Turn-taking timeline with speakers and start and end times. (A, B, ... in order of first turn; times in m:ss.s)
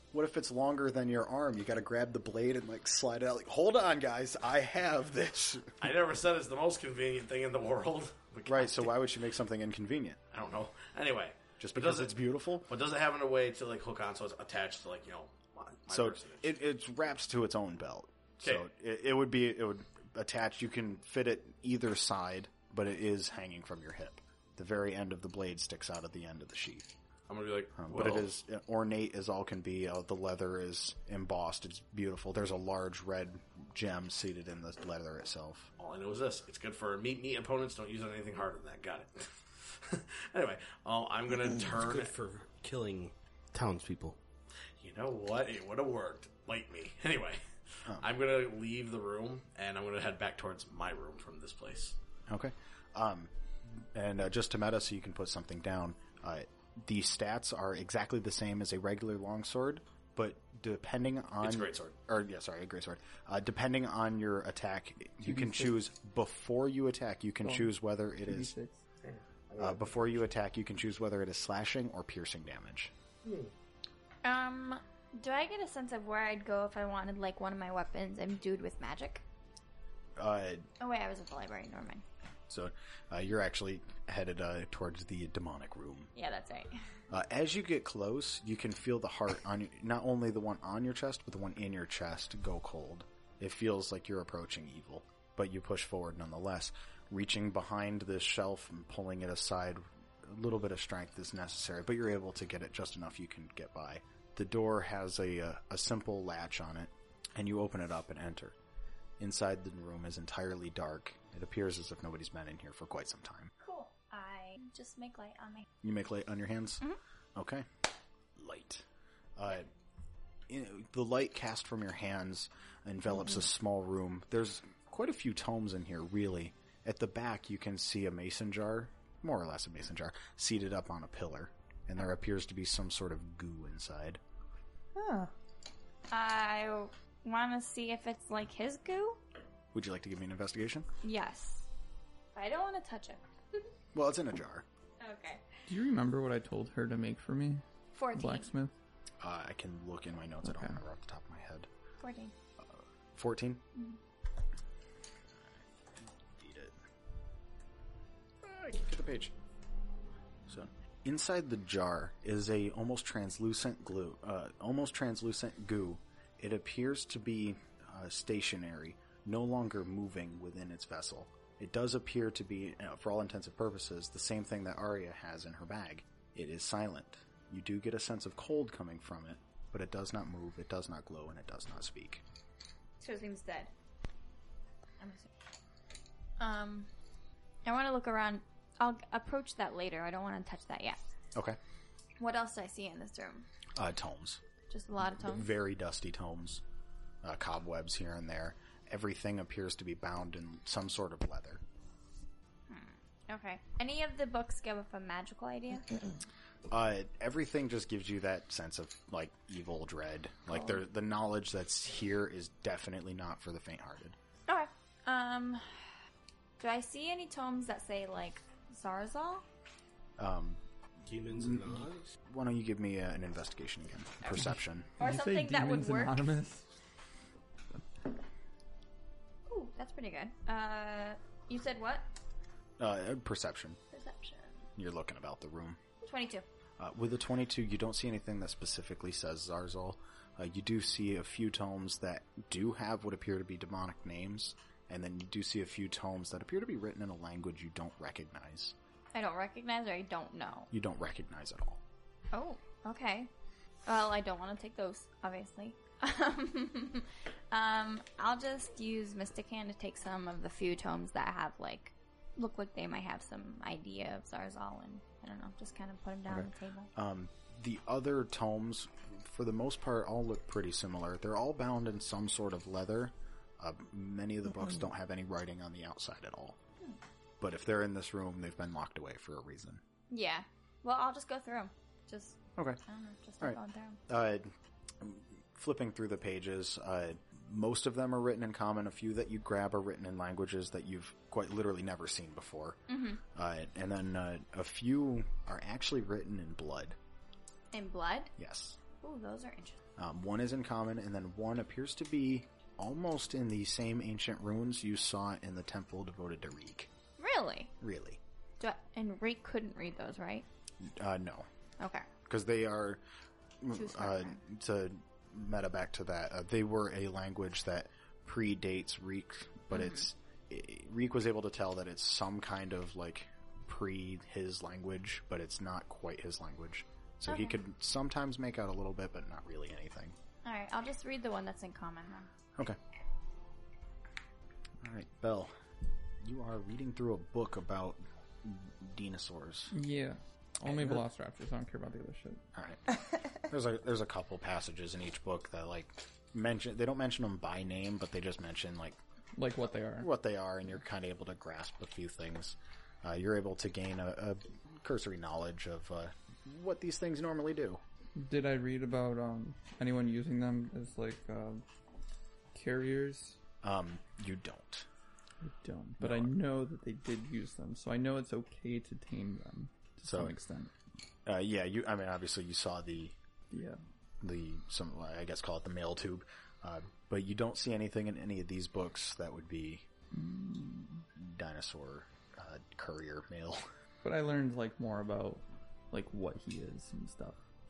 0:00.1-0:05.7 A
0:05.8-0:08.9 B
0:08.5-0:10.2 A
0:10.3-0:16.6 B
0:11.6-0:12.7 A
0:15.9-0:26.9 A
0:27.3-0:28.3 B
0:27.8-0:35.7 A
0:35.8-0:39.3 B
0:39.8-0:42.1 B
0:41.6-0:44.2 C
0:44.8-0:47.4 B
0:48.0-0:52.0 B
0:52.3-1:08.5 A
1:01.4-1:01.9 B
1:05.2-1:05.8 D
1:07.4-1:08.8 D
1:09.0-1:10.2 B
1:09.6-1:12.9 A
1:13.2-1:13.5 B
1:14.2-1:19.2 E
1:20.2-1:20.6 A
1:20.8-1:22.0 E
1:22.5-1:26.1 A
1:26.1-1:26.7 E
1:27.1-1:48.6 A
1:49.2-1:53.5 A
1:53.6-1:55.7 E
1:55.8-1:56.8 A
1:57.4-1:57.6 A
1:58.4-1:58.8 A
1:59.4-1:59.7 A
2:00.5-2:14.2 A
2:15.0-2:15.3 D
2:16.1-2:19.2 E
2:19.7-2:20.8 A
2:21.0-2:21.6 E
2:22.3-2:23.6 E
2:23.9-2:24.6 A
2:25.0-2:25.4 E
2:25.7-2:27.6 D
2:27.9-2:28.5 E
2:28.1-2:28.7 D
2:29.2-2:31.7 A
2:30.4-2:30.8 D
2:32.0-2:32.3 E
2:32.6-2:33.6 A
2:36.3-2:36.7 A
2:38.4-2:39.3 A
2:40.5-3:02.2 A
3:03.0-3:03.7 E
3:05.0-3:05.3 E
3:06.4-3:06.9 E
3:07.6-3:11.0 E
3:12.2-3:13.4 E
3:13.8-3:14.4 A
3:14.7-3:15.5 E
3:15.2-3:16.6 A
3:17.2-3:21.6 A
3:22.7-3:26.0 E
3:26.7-3:34.2 A
3:34.5-3:35.6 E
3:36.6-3:39.4 E
3:40.2-3:40.6 A
3:41.1-3:42.1 C
3:41.3-3:44.9 A
3:45.0-3:46.2 E
3:45.0-3:46.6 D
3:49.5-3:52.0 E
3:52.8-3:53.8 A
3:53.9-3:54.7 E
3:54.8-3:55.8 A
3:56.0-3:56.4 E
3:56.8-4:08.7 A
4:09.1-4:10.7 E
4:10.7-4:11.8 A
4:12.3-4:13.3 E
4:13.8-4:26.9 E
4:26.3-4:36.6 A
4:37.4-4:39.8 A
4:40.1-4:44.0 E
4:43.4-4:52.8 A
4:52.9-4:53.2 E
4:53.3-4:57.0 A
4:57.7-4:58.3 E
4:58.4-4:58.8 A
4:58.9-4:59.8 E
5:00.0-5:06.9 A
5:07.2-5:07.7 E
5:07.8-5:08.2 A
5:08.6-5:10.4 E
5:10.8-5:11.4 A
5:11.8-5:12.1 E
5:12.2-5:13.0 A
5:13.6-5:30.2 A
5:13.7-5:14.4 E
5:19.7-5:20.1 E
5:27.3-5:27.6 E
5:30.4-5:32.3 E
5:34.8-5:35.5 A
5:36.2-5:39.7 A
5:39.7-5:42.4 D
5:40.6-5:41.0 A
5:42.5-5:49.0 A
5:49.4-5:50.1 D
5:50.0-5:57.8 A
5:58.2-6:01.6 D
6:02.5-6:03.4 D
6:03.6-6:04.8 A
6:05.4-6:10.7 D
6:06.0-6:06.3 A
6:10.1-6:10.3 A
6:11.2-6:13.1 A
6:13.5-6:13.8 D
6:14.2-6:19.8 A
6:20.1-6:21.0 D
6:21.2-6:23.6 A
6:24.0-6:27.4 D